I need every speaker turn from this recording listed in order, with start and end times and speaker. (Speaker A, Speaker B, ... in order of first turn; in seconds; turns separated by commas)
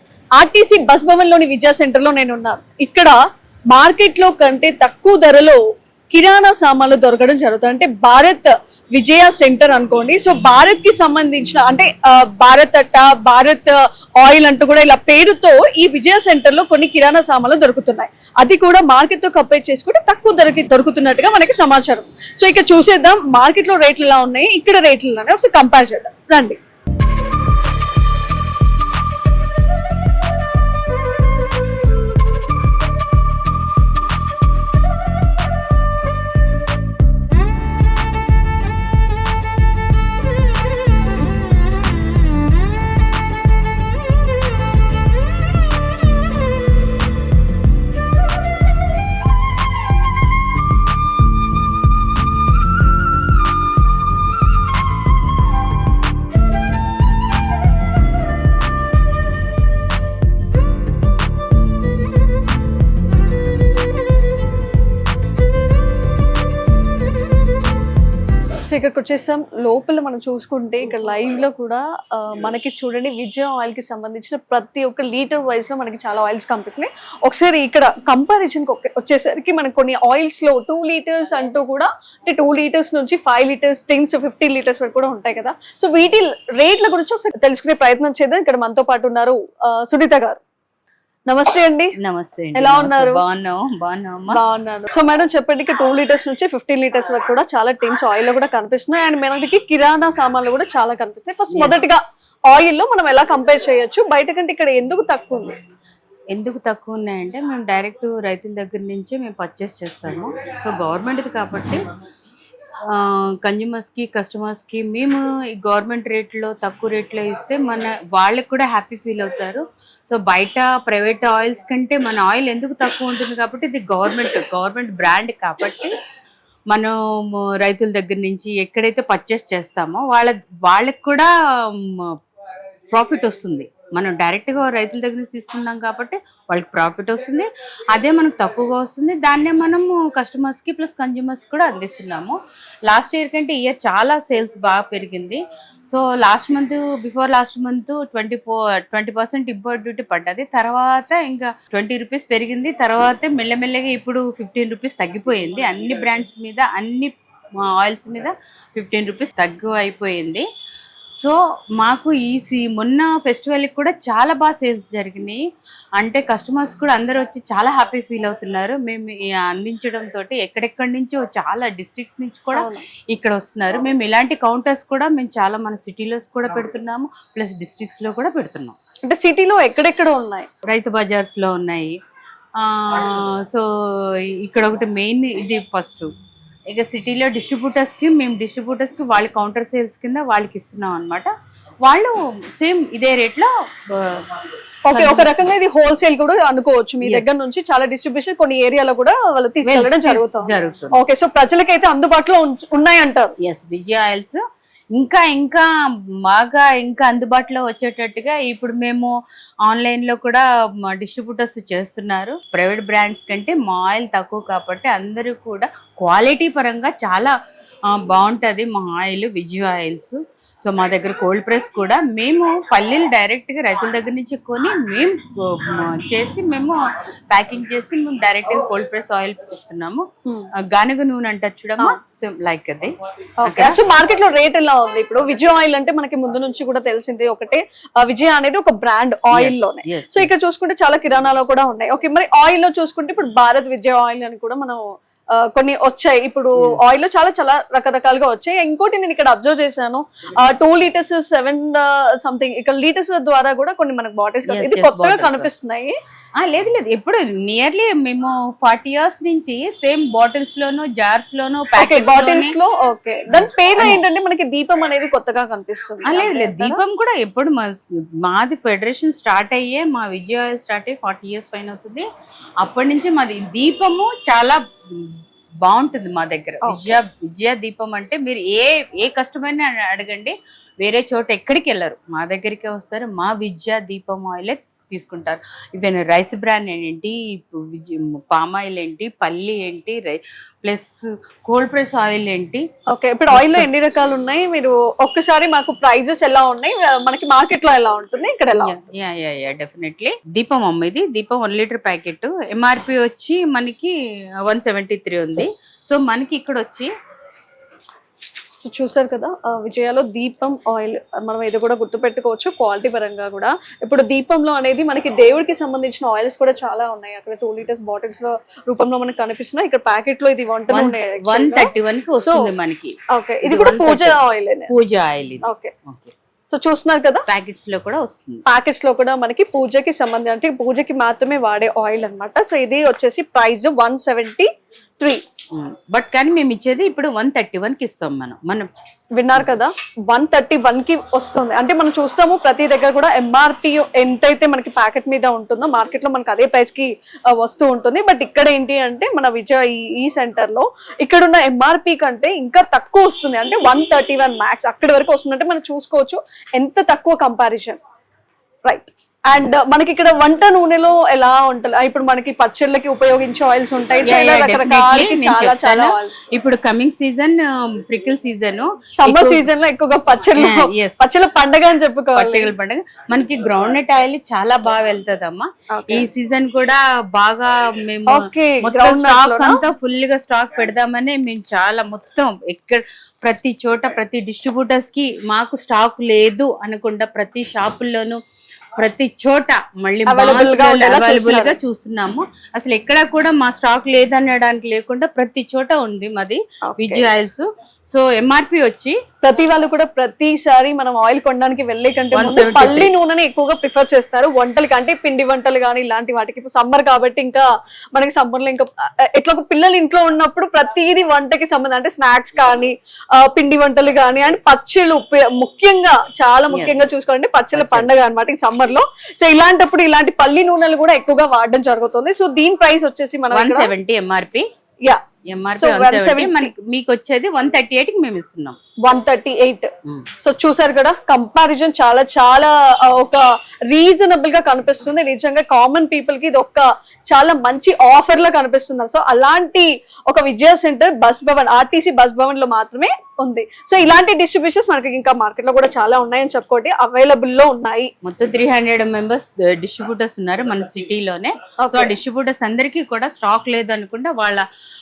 Speaker A: 0.4-3.2, Speaker A: 3.7-5.6, Speaker A: 6.1-26.6, Speaker A: 68.7-90.4, Speaker A: 91.3-91.9, Speaker B: 92.0-94.4, Speaker A: 92.5-93.2, Speaker A: 94.3-105.5, Speaker B: 101.5-101.8, Speaker B: 106.3-111.8, Speaker B: 112.9-125.9, Speaker B: 126.7-132.1, Speaker B: 132.9-157.1, Speaker B: 157.6-160.4, Speaker B: 161.2-165.4, Speaker B: 166.0-178.8, Speaker A: 172.5-172.8, Speaker A: 179.1-180.5, Speaker B: 180.7-182.0, Speaker B: 182.6-183.6, Speaker B: 184.4-186.1, Speaker B: 186.7-191.3, Speaker B: 191.8-195.5, Speaker A: 194.8-203.3, Speaker B: 197.0-197.3, Speaker B: 199.6-201.0, Speaker B: 203.4-204.4, Speaker B: 204.9-205.7, Speaker B: 206.3-209.1, Speaker B: 209.7-217.3, Speaker B: 217.9-226.8, Speaker B: 227.3-230.1, Speaker B: 230.6-232.9, Speaker A: 233.4-244.8, Speaker B: 233.4-233.8, Speaker B: 239.3-240.3, Speaker A: 245.4-255.9, Speaker B: 254.5-255.5, Speaker B: 256.4-262.6, Speaker A: 261.8-266.8, Speaker B: 263.4-264.0, Speaker B: 266.0-272.1, Speaker B: 272.6-290.9, Speaker A: 276.6-277.0, Speaker B: 291.5-292.6, Speaker A: 292.9-298.7, Speaker B: 293.3-293.7, Speaker B: 298.5-303.9, Speaker B: 304.4-306.9, Speaker A: 308.6-322.5, Speaker B: 320.7-326.1, Speaker A: 323.1-324.7, Speaker A: 325.4-325.7, Speaker A: 326.5-327.2, Speaker B: 327.3-328.4, Speaker A: 328.4-335.2, Speaker B: 335.5-338.7, Speaker A: 339.2-357.8, Speaker A: 358.6-366.1, Speaker B: 364.0-369.4, Speaker A: 369.0-372.5, Speaker B: 370.4-371.0, Speaker B: 372.1-388.2, Speaker A: 375.7-376.1, Speaker A: 378.1-379.6, Speaker B: 388.8-399.0, Speaker A: 390.1-391.5, Speaker A: 396.6-397.1, Speaker A: 399.2-423.7, Speaker B: 402.1-402.9, Speaker B: 416.5-416.9, Speaker B: 417.5-417.9, Speaker B: 423.3-424.5, Speaker B: 425.3-428.6, Speaker A: 425.5-426.5, Speaker A: 428.8-429.7, Speaker A: 430.2-447.9, Speaker B: 448.0-454.4, Speaker A: 451.6-451.9